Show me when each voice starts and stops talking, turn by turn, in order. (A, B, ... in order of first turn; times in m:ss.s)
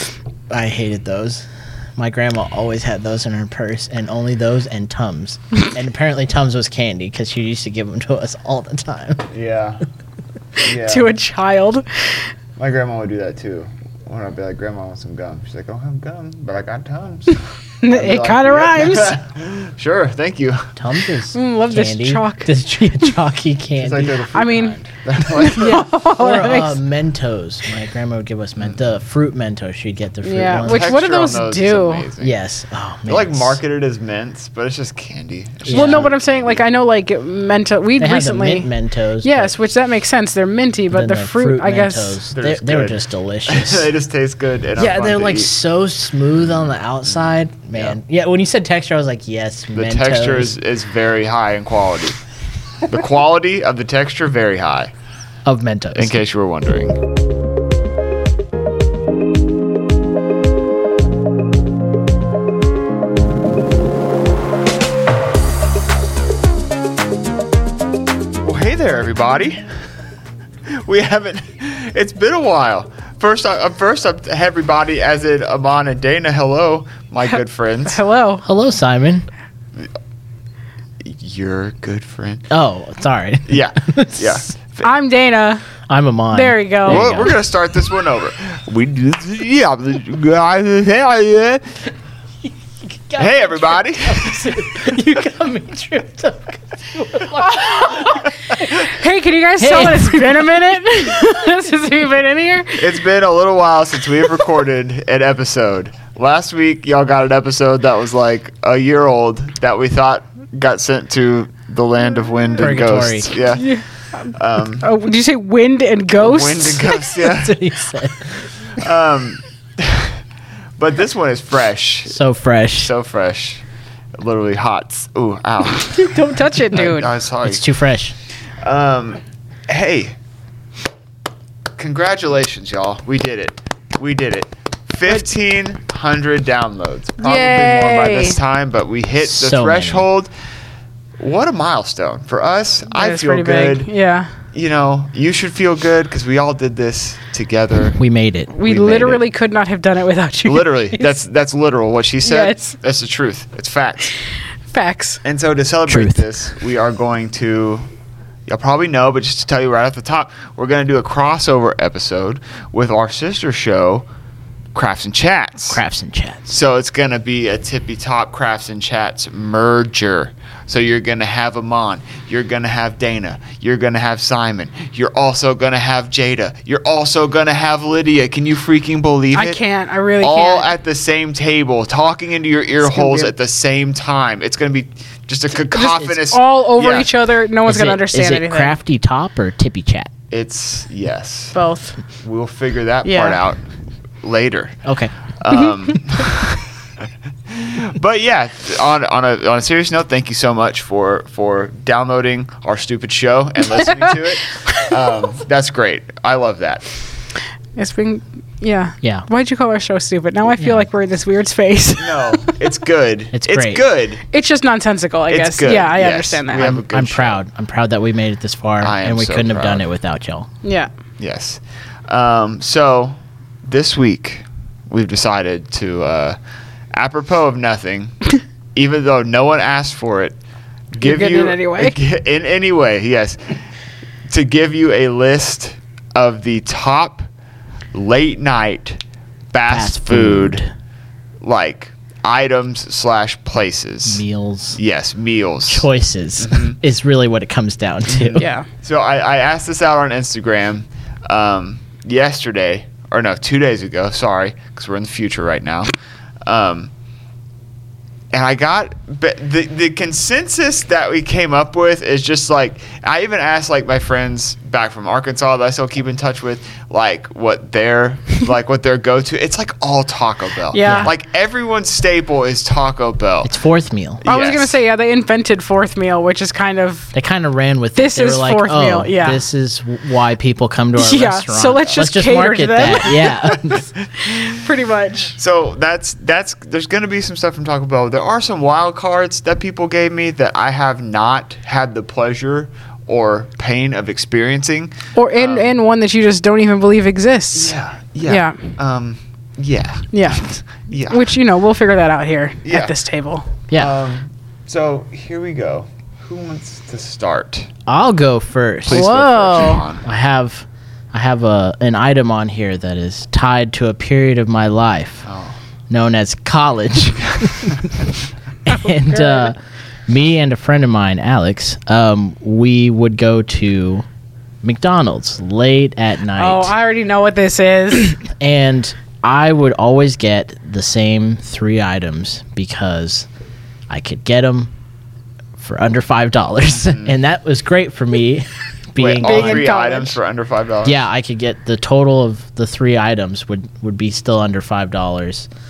0:00.5-0:01.4 A
0:02.0-0:09.3 A
0:09.3-0:09.8 B
0:10.6-0:11.1 B
0:10.7-0:11.9 C
0:12.6-0:17.4 B
0:17.8-0:19.2 C
0:17.9-0:20.7 B
0:20.8-0:24.2 A
0:21.3-0:22.5 C
0:23.8-0:25.8 B
0:24.3-0:24.8 C
0:25.3-0:26.8 C
0:25.5-0:31.0 A
0:30.2-0:32.0 C
0:30.6-0:32.3 B
0:32.2-0:33.6 A
0:33.1-0:36.6 B
0:35.6-0:36.1 A
0:35.7-0:38.7 C
0:38.0-0:39.6 A
0:39.2-0:42.2 C
0:40.9-0:43.9 A
0:42.3-0:45.5 B
0:44.8-0:50.5 A
0:46.4-0:47.9 B
0:49.7-0:52.2 B
0:52.8-0:54.9 B
0:55.4-0:56.2 A
0:56.0-0:57.0 B
1:08.4-1:09.6 B
1:10.8-1:18.0 B
1:17.9-1:18.4 C
1:18.4-1:19.3 A
1:21.0-1:22.4 B
1:22.5-1:24.4 A
1:23.5-1:24.8 B
1:24.8-1:25.6 C
1:25.9-1:27.4 A
1:26.3-1:27.1 C
1:26.9-1:31.6 B
1:32.4-1:38.9 A
1:33.2-1:34.6 B
1:37.6-1:42.8 C
1:39.6-1:40.5 A
1:42.8-1:53.7 B
1:52.6-1:53.3 A
1:53.5-1:53.8 C
1:54.3-1:54.9 B
1:54.8-1:57.1 C
1:56.2-1:57.6 B
1:57.2-1:58.4 A
1:58.8-2:00.2 B
2:00.8-2:02.2 B
2:02.1-2:02.9 A
2:02.8-2:03.6 B
2:04.2-2:06.2 B
2:05.8-2:07.1 C
2:06.7-2:07.7 B
2:07.4-2:08.2 A
2:08.6-2:10.2 B
2:11.8-2:20.3 B
2:17.2-2:18.4 C
2:19.2-2:20.1 A
2:21.2-2:23.9 B
2:22.9-2:24.3 C
2:24.5-2:28.0 B
2:28.0-2:28.5 A
2:28.5-2:31.2 C
2:28.6-2:29.2 B
2:30.4-2:34.1 B
2:32.2-2:32.8 C
2:34.7-2:35.2 C
2:35.2-2:37.8 B
2:35.9-2:36.2 A
2:38.5-2:44.1 B
2:44.7-2:45.8 B
2:45.7-2:46.5 A
2:46.5-2:59.6 B
2:59.3-3:00.7 C
3:00.2-3:07.1 B
3:02.8-3:03.3 C
3:05.7-3:08.8 C
3:07.7-3:10.1 A
3:10.3-3:11.6 B
3:11.5-3:12.0 C
3:12.2-3:13.6 B
3:13.0-3:13.4 C
3:14.2-3:14.8 B
3:14.8-3:15.1 A
3:15.4-3:16.6 B
3:17.5-3:26.8 B
3:23.8-3:24.9 C
3:27.8-3:32.6 C
3:30.6-3:30.9 A
3:32.0-3:34.2 B
3:33.3-3:33.8 A
3:34.3-3:36.7 C
3:35.3-3:37.4 B
3:36.5-3:40.5 A
3:38.8-3:39.8 B
3:40.6-3:40.9 C
3:41.2-3:46.4 B
3:46.9-3:50.4 B
3:50.9-3:53.6 B
3:51.0-3:52.0 C
3:54.3-3:57.3 B
3:57.9-3:59.0 B
3:59.5-4:00.6 B
3:59.7-4:00.7 A
4:01.4-4:04.2 B
4:04.1-4:04.8 A
4:04.8-4:05.9 B
4:05.7-4:08.5 A
4:06.4-4:06.8 B
4:08.1-4:15.9 B
4:08.4-4:08.7 C
4:16.4-4:16.9 B
4:18.3-4:33.5 B
4:30.7-4:31.1 C
4:30.8-4:31.1 A
4:33.4-4:34.2 A
4:34.2-4:34.8 B
4:34.2-4:37.1 C
4:37.1-4:43.8 A
4:38.0-4:39.4 C
4:41.0-4:45.4 C
4:43.6-4:44.3 B
4:45.4-4:55.7 B
4:55.1-4:58.6 C
4:57.5-5:01.3 B
5:00.1-5:00.5 C
5:01.1-5:03.5 C
5:02.6-5:02.9 B
5:03.7-5:07.7 B
5:07.9-5:09.1 A
5:08.9-5:10.0 B
5:08.9-5:09.8 C
5:10.0-5:15.2 A
5:15.2-5:15.6 B
5:15.9-5:18.0 A
5:18.7-5:24.1 A
5:18.7-5:19.5 C
5:24.6-5:26.7 A
5:26.4-5:28.2 C
5:28.2-5:33.3 A
5:33.9-5:34.7 A
5:35.6-5:39.6 A
5:39.0-5:41.0 B
5:39.2-5:40.2 C
5:40.8-5:45.5 A